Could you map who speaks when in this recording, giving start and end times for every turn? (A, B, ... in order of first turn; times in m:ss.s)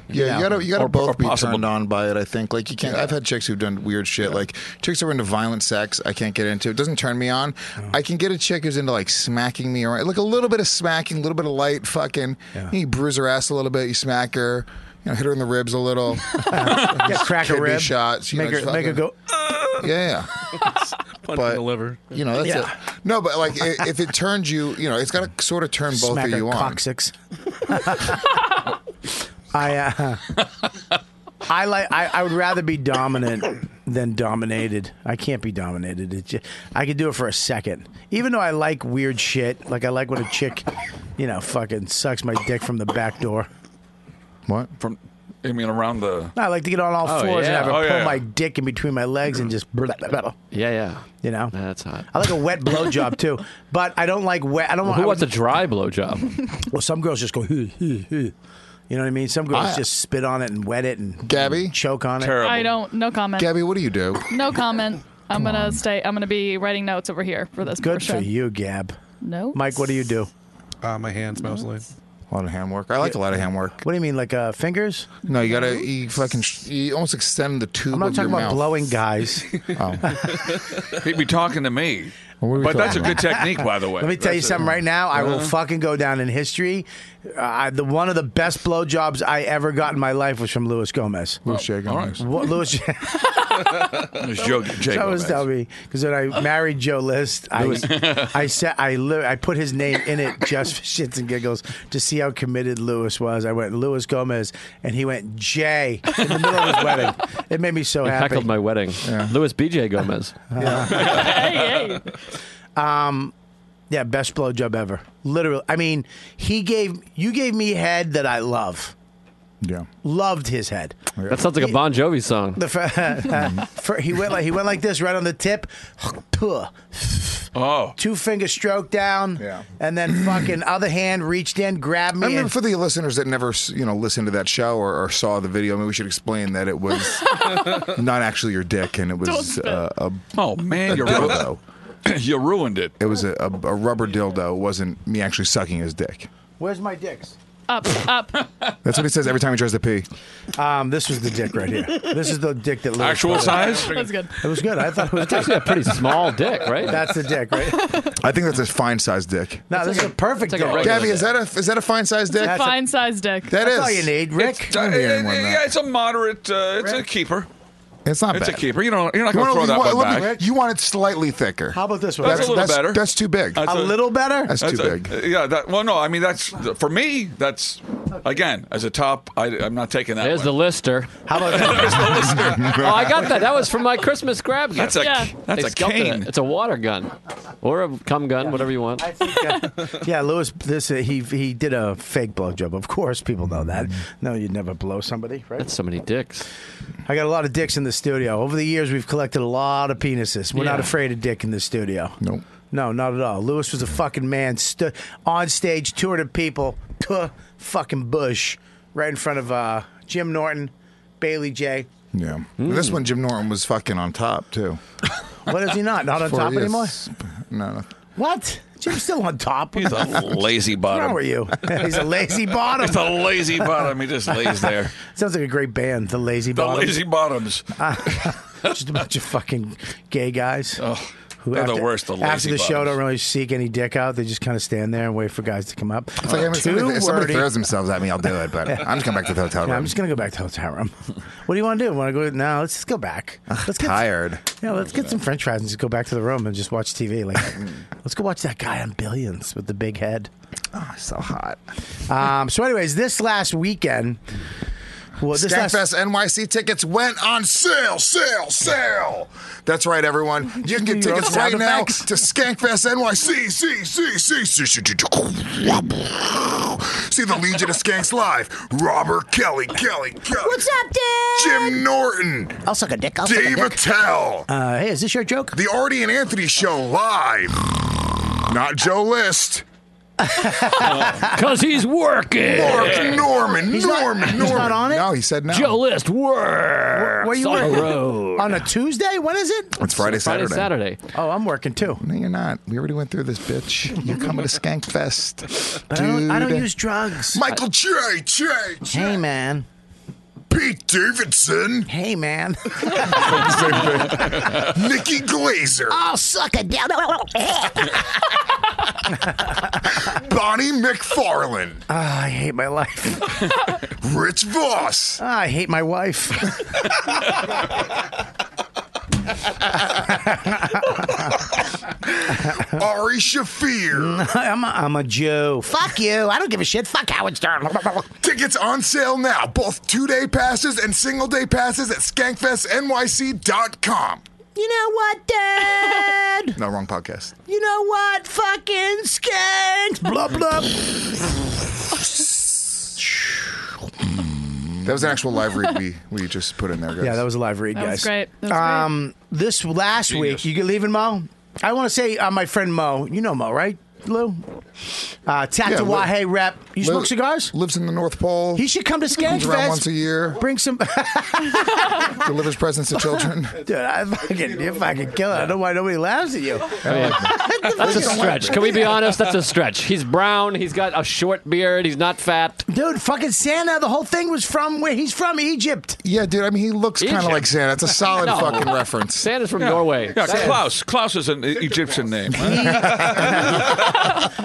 0:00.1-0:19.0 A
0:00.1-0:00.5 B
0:00.6-0:01.7 C
0:02.8-0:03.1 C
0:16.4-0:19.2 B
0:19.8-0:20.4 A
0:21.2-0:22.2 D
0:21.3-0:26.8 A
0:22.4-0:22.7 B
0:25.9-0:28.4 B
0:29.5-0:30.4 B
0:31.5-0:43.5 B
0:44.8-0:46.3 C
0:46.4-0:50.4 B
0:47.0-0:47.8 E
0:47.6-0:48.2 C
0:50.5-0:52.1 E
0:51.2-0:51.5 B
0:52.1-0:55.3 B
0:54.8-0:56.4 E
0:56.7-0:58.3 B
0:58.9-1:02.4 B
0:59.5-0:59.8 A
1:01.3-1:01.7 A
1:02.2-1:02.8 C
1:02.4-1:03.7 F
1:03.4-1:04.3 A
1:04.3-1:08.3 F
1:05.3-1:05.8 A
1:07.8-1:09.0 B
1:09.2-1:09.6 F
1:09.5-1:10.3 B
1:10.8-1:11.9 D
1:12.3-1:13.8 A
1:13.0-1:13.2 B
1:13.8-1:15.1 B
1:15.2-1:18.8 A
1:17.9-1:19.5 B
1:19.7-1:20.4 A
1:20.1-1:20.4 B
1:21.0-1:25.5 C
1:22.4-1:23.3 A
1:22.7-1:31.4 B
1:31.5-1:32.2 A
1:31.5-1:32.2 C
1:32.2-1:33.5 B
1:34.0-1:35.4 C
1:34.8-1:48.5 B
1:37.6-1:38.4 C
1:48.0-1:50.4 E
1:49.0-1:49.3 A
1:50.5-1:51.2 B
1:50.6-1:50.9 A
1:50.9-1:52.0 F
1:50.9-1:51.8 C
1:52.8-1:53.3 B
1:53.9-1:59.0 B
1:59.6-1:59.9 A
2:00.0-2:01.0 B
2:01.2-2:01.4 A
2:01.3-2:02.6 E
2:02.6-2:12.5 B
2:03.3-2:03.6 A
2:07.6-2:08.0 C
2:09.4-2:09.7 A
2:12.2-2:20.2 A
2:19.2-2:19.8 F
2:20.4-2:21.5 C
2:20.8-2:21.6 A
2:22.0-2:23.0 C
2:23.0-2:26.3 A
2:26.6-2:27.4 B
2:27.7-2:28.4 F
2:28.8-2:30.1 A
2:30.6-2:35.9 B
2:33.0-2:34.1 C
2:33.8-2:34.4 F
2:35.3-2:37.0 E
2:36.8-2:38.0 B
2:37.6-2:38.1 F
2:38.2-2:40.1 A
2:39.7-2:41.2 B
2:40.4-2:41.3 E
2:40.6-2:42.8 A
2:42.3-2:43.5 F
2:42.4-2:42.8 B
2:43.5-2:44.7 B
2:43.5-2:44.1 A
2:44.4-2:47.5 C
2:44.7-2:45.6 A
2:48.0-2:48.6 A
2:48.3-2:50.4 C
2:49.3-2:53.6 A
2:50.0-2:50.5 B
2:51.7-2:52.7 B
2:52.2-3:00.6 C
2:53.6-2:54.6 B
2:54.5-2:55.1 A
3:00.2-3:01.1 E
3:01.3-3:02.6 B
3:01.3-3:03.3 C
3:02.6-3:09.0 E
3:04.8-3:06.3 C
3:05.0-3:05.4 F
3:09.0-3:15.7 B
3:15.6-3:16.5 E
3:17.0-3:22.2 B
3:20.5-3:20.9 E
3:22.7-3:31.9 B
3:32.1-3:34.8 A
3:32.6-3:33.0 E
3:35.5-3:37.0 B
3:36.2-3:37.9 A
3:38.2-3:43.5 B
3:39.8-3:41.8 C
3:42.7-3:45.0 C
3:45.0-3:47.0 B
3:46.5-3:48.7 C
3:47.8-3:50.8 B
3:50.8-3:53.0 C
3:51.4-3:57.5 B
3:56.2-3:59.9 A
3:58.7-3:59.0 B
3:59.6-4:00.9 B
4:01.5-4:10.3 B
4:03.5-4:04.4 A
4:10.7-4:11.6 A
4:12.1-4:14.2 B
4:15.2-4:15.8 B
4:15.3-4:30.7 A
4:20.6-4:22.1 B
4:30.3-4:31.8 B
4:31.3-4:32.6 A
4:32.6-4:33.8 B
4:33.2-4:34.5 A
4:34.5-4:35.6 B
4:35.5-4:39.6 A
4:40.2-4:41.3 B
4:41.2-4:43.2 E
4:42.5-4:45.8 A
4:43.6-4:45.1 B
4:45.5-4:48.6 E
4:46.9-4:49.8 B
4:49.8-4:50.7 A
4:50.0-4:51.0 E
4:51.1-4:52.0 B
4:52.0-4:56.7 A
4:55.9-4:57.4 B
4:57.3-4:59.2 A
4:58.9-4:59.7 B
5:00.5-5:01.9 A
5:01.9-5:03.7 B
5:02.8-5:06.0 A
5:04.3-5:04.6 C
5:05.9-5:08.0 B
5:09.9-5:11.8 A
5:11.9-5:13.4 B
5:14.0-5:15.2 A
5:15.2-5:16.6 B
5:20.0-5:20.9 B
5:21.8-5:24.3 A
5:23.9-5:28.1 B
5:28.2-5:34.2 A
5:34.6-5:36.6 B
5:36.6-5:37.4 A
5:37.5-5:41.4 B
5:44.1-5:47.2 A
5:47.0-5:57.5 B
5:47.8-5:48.9 F
5:50.1-5:50.4 C
5:55.7-5:56.1 A
5:56.8-5:58.6 A
5:58.6-6:02.3 B
5:59.2-6:00.4 A
6:02.0-6:03.6 A
6:03.6-6:09.1 B
6:06.9-6:08.9 A
6:06.9-6:12.6 E
6:12.7-6:16.0 B
6:16.0-6:19.3 A
6:17.0-6:17.5 E
6:18.0-6:20.6 E
6:19.6-6:23.7 C
6:20.2-6:20.6 B
6:22.3-6:23.8 B
6:22.8-6:24.2 A